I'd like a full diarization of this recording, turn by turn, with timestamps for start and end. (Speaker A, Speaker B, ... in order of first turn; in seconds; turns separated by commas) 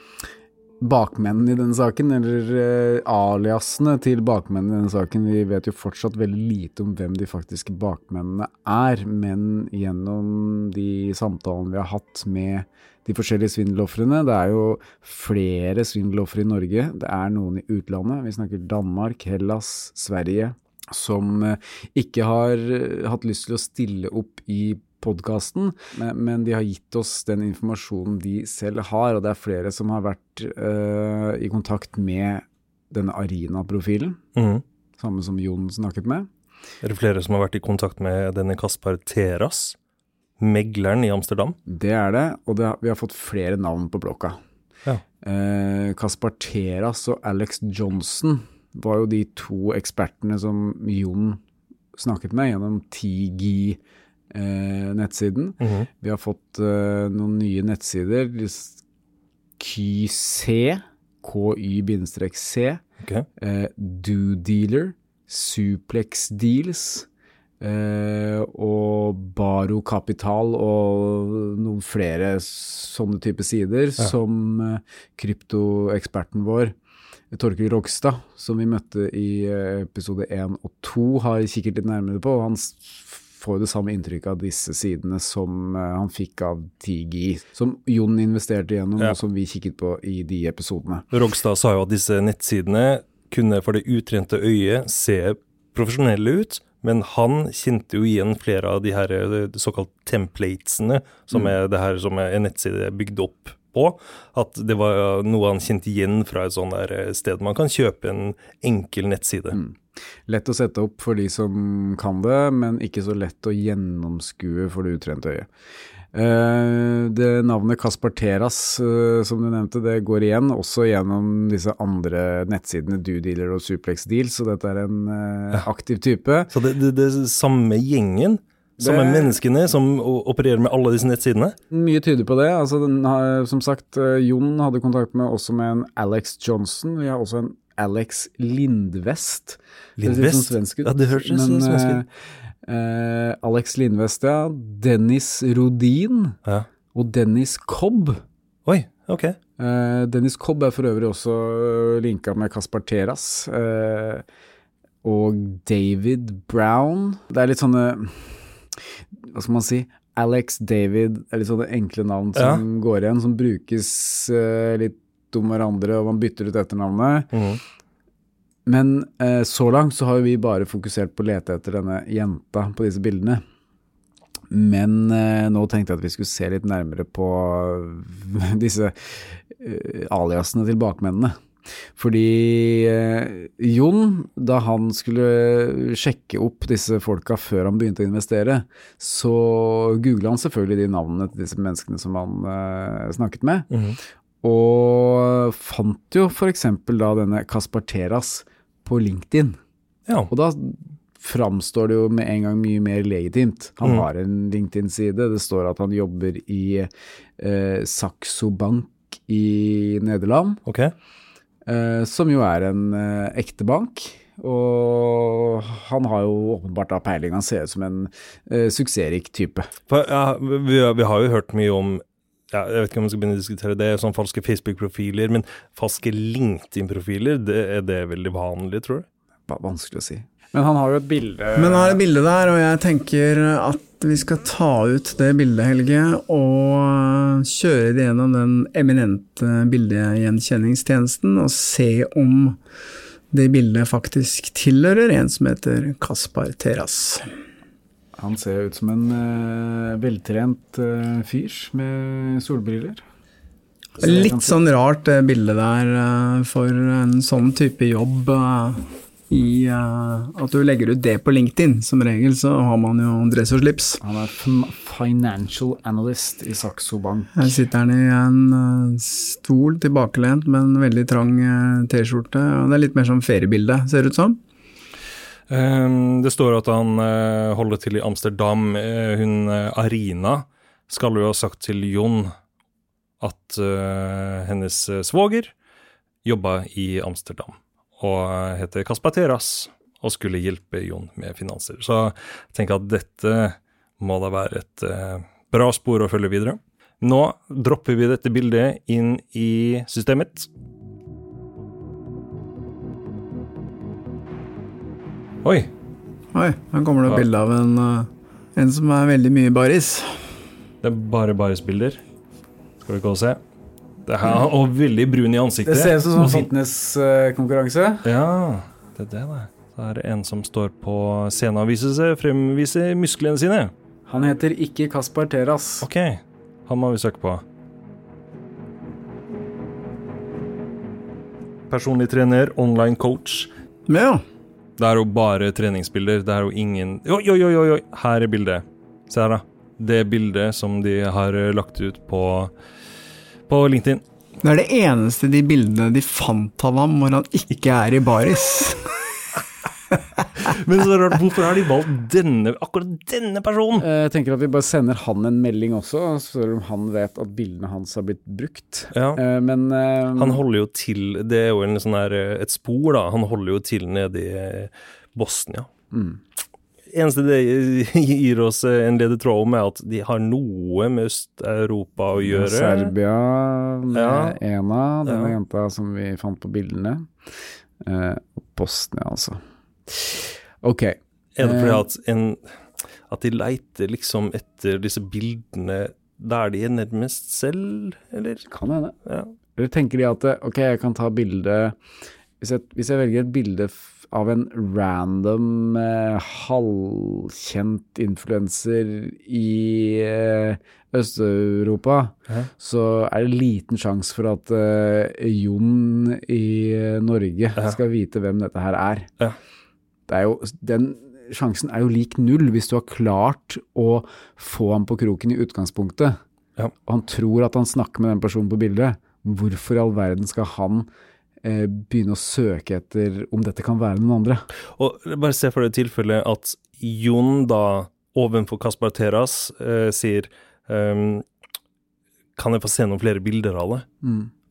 Speaker A: 0.8-34.2, Speaker B: 34.4-34.6, Speaker A: 35.0-36.3, Speaker B: 36.8-39.8, Speaker B: 40.4-41.6, Speaker A: 41.7-44.4, Speaker A: 45.2-51.4, Speaker A: 51.9-53.8, Speaker A: 54.3-58.8, Speaker B: 55.6-55.9, Speaker A: 59.6-62.8, Speaker A: 63.4-67.1, Speaker A: 67.6-76.8, Speaker A: 77.3-91.1, Speaker B: 91.1-109.6, Speaker A: 109.5-115.5, Speaker A: 116.1-126.5, Speaker B: 126.5-131.6, Speaker A: 128.8-129.4, Speaker A: 131.7-142.1, Speaker B: 140.0-142.0, Speaker A: 142.6-146.4, Speaker A: 146.9-148.2, Speaker B: 148.7-149.4, Speaker A: 149.6-154.2, Speaker A: 155.0-158.6, Speaker A: 159.2-167.3, Speaker B: 162.4-162.6, Speaker B: 167.3-167.6, Speaker A: 168.7-173.4, Speaker A: 174.5-181.3, Speaker A: 181.9-193.7, Speaker B: 193.7-194.0, Speaker A: 194.4-199.6, Speaker A: 200.3-210.6, Speaker B: 210.7-210.9, Speaker A: 211.7-219.7, Speaker B: 219.9-229.1, Speaker A: 229.5-232.0, Speaker C: 231.6-242.6, Speaker C: 243.3-247.3, Speaker A: 248.2-253.0, Speaker A: 254.0-254.6, Speaker C: 254.0-264.0, Speaker A: 264.0-267.5, Speaker C: 267.4-274.4, Speaker B: 275.5-282.3, Speaker B: 283.2-285.5, Speaker B: 286.2-300.5, Speaker B: 305.4-305.7, Speaker C: 306.3-310.2, Speaker B: 310.8-312.0, Speaker B: 312.8-313.4, Speaker B: 314.1-316.5, Speaker A: 315.6-318.1, Speaker B: 318.0-323.7, Speaker A: 324.1-325.9, Speaker B: 325.8-327.4, Speaker B: 331.7-333.5, Speaker C: 333.9-334.2, Speaker B: 334.8-342.5, Speaker B: 343.5-344.0, Speaker C: 344.4-349.0, Speaker B: 350.4-353.9, Speaker A: 353.8-360.4, Speaker B: 358.9-359.2, Speaker B: 360.2-365.7, Speaker A: 365.9-366.2, Speaker B: 366.9-372.9, Speaker A: 372.2-377.1, Speaker B: 373.9-374.4, Speaker B: 375.1-375.4, Speaker A: 377.8-381.9, Speaker B: 381.4-388.4, Speaker A: 388.5-389.0, Speaker B: 389.1-389.3, Speaker A: 389.6-391.8, Speaker A: 392.4-409.1, Speaker A: 410.1-416.2, Speaker A: 416.9-420.9, Speaker A: 421.4-424.5, Speaker B: 424.8-431.2, Speaker B: 432.4-433.9, Speaker A: 434.0-434.3